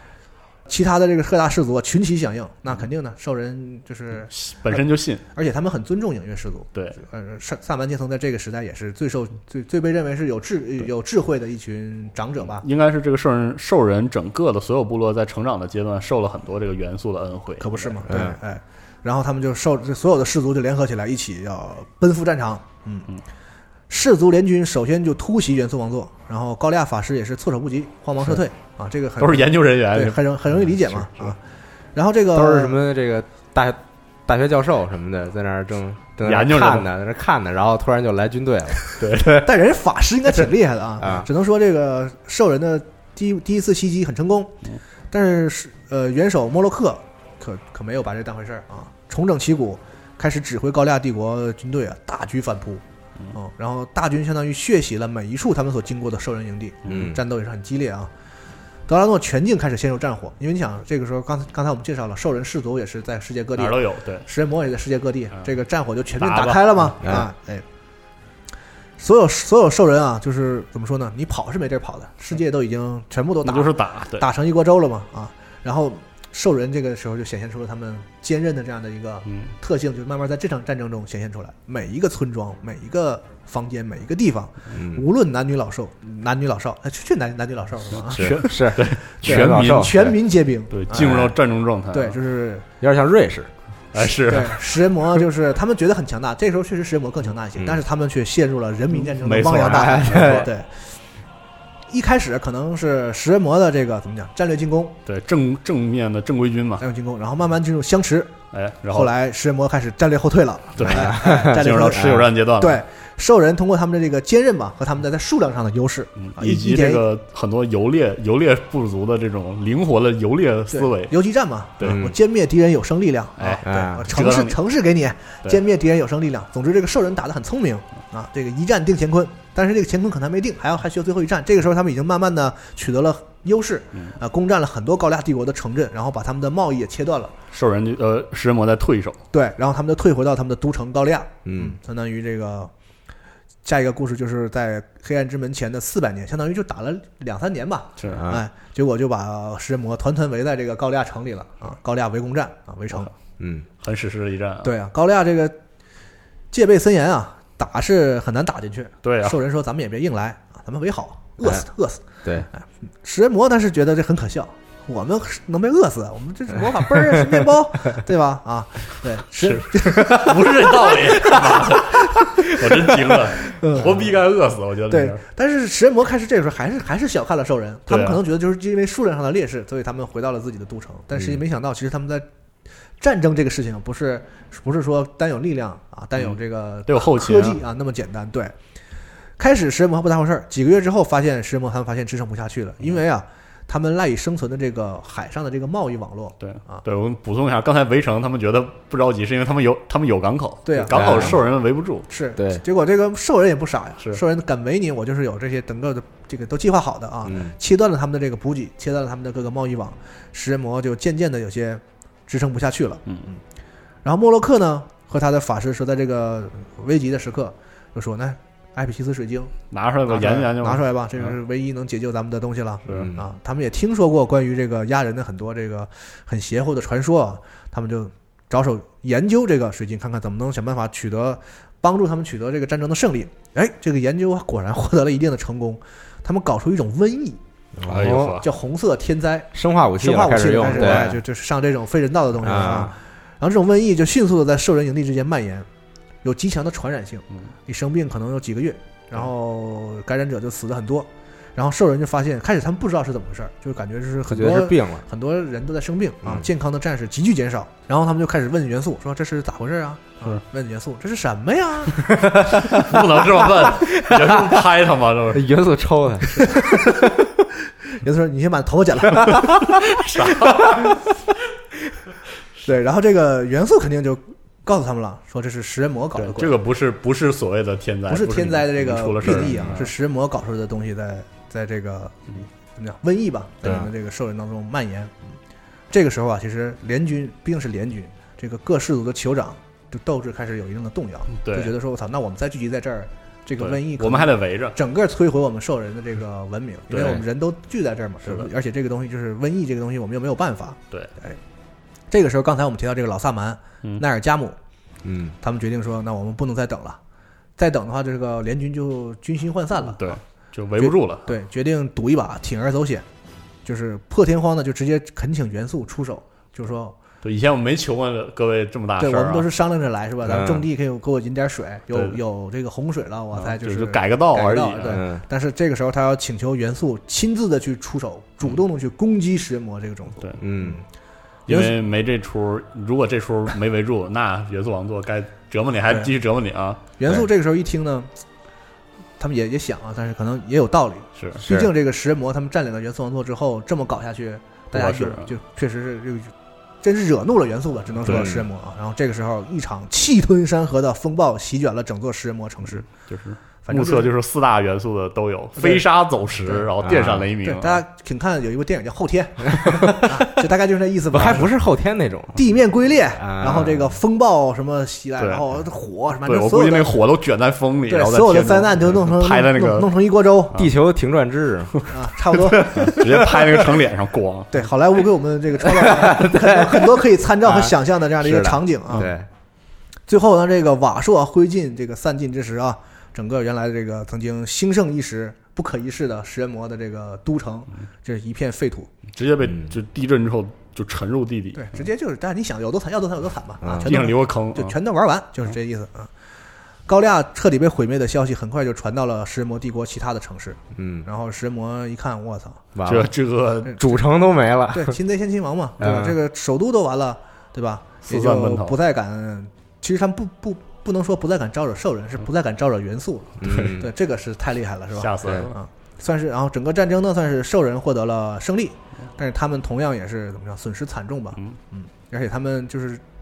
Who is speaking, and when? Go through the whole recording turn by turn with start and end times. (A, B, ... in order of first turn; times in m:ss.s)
0:00.7-0:12.6 A
0:04.3-0:05.2 B
0:06.7-0:07.0 B
0:12.6-0:18.0 B
0:17.6-0:23.1 A
0:18.1-0:18.4 C
0:23.9-0:31.4 A
0:29.2-0:30.3 B
0:30.9-0:31.3 B
0:31.9-0:32.8 A
0:32.3-0:39.4 C
0:36.2-0:36.9 B
0:39.0-0:39.4 B
0:39.2-0:44.6 A
0:41.0-0:41.3 C
0:45.1-0:58.1 A
0:56.9-0:57.2 C
0:58.9-1:07.6 A
1:03.6-1:04.2 B
1:06.2-1:06.9 B
1:07.0-1:07.3 C
1:09.0-1:31.3 A
1:13.4-1:14.3 B
1:24.7-1:25.0 C
1:28.0-1:30.2 B
1:28.1-1:30.1 C
1:30.7-1:32.2 B
1:30.9-1:31.3 C
1:31.9-1:32.6 A
1:32.8-1:33.5 C
1:33.9-1:34.7 B
1:34.0-1:40.8 A
1:37.6-1:37.8 C
1:39.2-1:40.5 B
1:39.6-1:40.5 C
1:41.9-1:45.0 A
1:45.0-1:46.8 B
1:46.8-1:48.4 A
1:48.5-1:49.1 B
1:48.9-1:57.0 A
1:50.8-1:52.8 B
1:50.8-1:52.3 C
1:56.2-2:01.1 B
2:00.7-2:17.3 A
2:01.8-2:02.1 B
2:01.8-2:02.1 C
2:03.4-2:04.6 B
2:03.6-2:04.0 C
2:17.5-2:19.2 B
2:19.3-2:22.7 A
2:21.4-2:21.7 C
2:23.6-2:33.1 A
2:28.0-2:28.2 B
2:28.1-2:28.4 C
2:33.4-2:33.6 C
2:33.8-2:34.7 B
2:34.6-2:35.6 A
2:36.5-2:51.7 A
2:39.0-2:39.4 B
2:49.4-2:55.2 B
2:53.4-2:54.1 A
2:54.9-3:02.3 A
2:57.9-2:58.2 B
3:03.0-3:08.5 A
3:06.9-3:07.6 B
3:09.4-3:16.8 A
3:16.4-3:22.0 B
3:20.6-3:21.4 A
3:20.9-3:21.4 C
3:22.1-3:33.4 A
3:22.4-3:22.6 C
3:27.2-3:27.5 C
3:34.0-3:39.5 A
3:39.7-3:41.4 B
3:40.1-3:57.4 A
3:42.9-3:43.2 C
3:57.8-3:58.4 C
3:57.8-3:58.5 B
3:58.1-4:05.7 A
3:59.5-4:01.2 C
4:02.4-4:02.9 C
4:06.2-4:22.1 A
4:14.3-4:15.0 C
4:22.3-4:23.0 C
4:22.3-4:25.5 B
4:23.6-4:24.6 C
4:25.3-4:27.1 C
4:28.0-4:29.6 A
4:29.2-4:29.8 C
4:29.9-4:31.0 B
4:32.6-4:36.6 A
4:36.2-4:39.9 B
4:38.1-4:45.4 A
4:39.2-4:39.7 C
4:45.9-5:01.4 A
4:51.3-4:51.7 B
4:53.6-4:54.8 B
4:56.9-4:57.2 B
5:02.1-5:04.6 A
5:05.0-5:05.4 C
5:05.4-5:07.0 A
5:07.6-5:10.2 A
5:09.9-5:11.3 B
5:10.8-5:13.0 A
5:13.6-5:16.9 A
5:17.2-5:19.5 B
5:19.0-5:30.8 A
5:20.2-5:20.6 C
5:21.9-5:22.2 B
5:23.3-5:25.0 B
5:24.8-5:25.2 C
5:30.4-5:30.8 C
5:31.5-5:36.8 B
5:31.5-5:31.7 A
5:37.0-5:38.1 A
5:39.2-5:52.8 A
5:41.2-5:41.4 B
5:44.7-5:45.3 B
5:48.0-5:48.3 B
5:48.0-5:48.4 C
5:52.8-5:57.8 B
5:53.6-5:54.1 A
5:55.6-5:55.8 A
5:56.4-5:56.7 A
5:56.8-5:57.3 C
5:57.4-6:01.5 A
5:59.6-6:00.2 C
6:01.1-6:02.4 C
6:02.3-6:06.9 A
6:03.2-6:04.0 C
6:05.2-6:05.4 B
6:06.2-6:09.9 B
6:07.9-6:10.5 A
6:10.5-6:13.7 C
6:11.9-6:13.0 A
6:12.6-6:14.6 B
6:14.5-6:19.1 A
6:15.6-6:19.2 C
6:20.1-6:28.9 A
6:29.1-6:31.8 B
6:29.4-6:29.7 C
6:31.5-6:36.1 A
6:33.6-6:34.0 C
6:33.8-6:34.8 B
6:36.9-6:42.6 A
6:40.7-6:41.1 C
6:42.7-6:43.1 C
6:42.8-6:43.8 B
6:43.7-6:45.0 C
6:44.7-7:03.0 A
6:45.8-6:46.2 C
6:48.0-6:48.8 B
6:53.4-6:53.9 C
6:53.4-6:53.7 B
6:54.9-6:55.5 B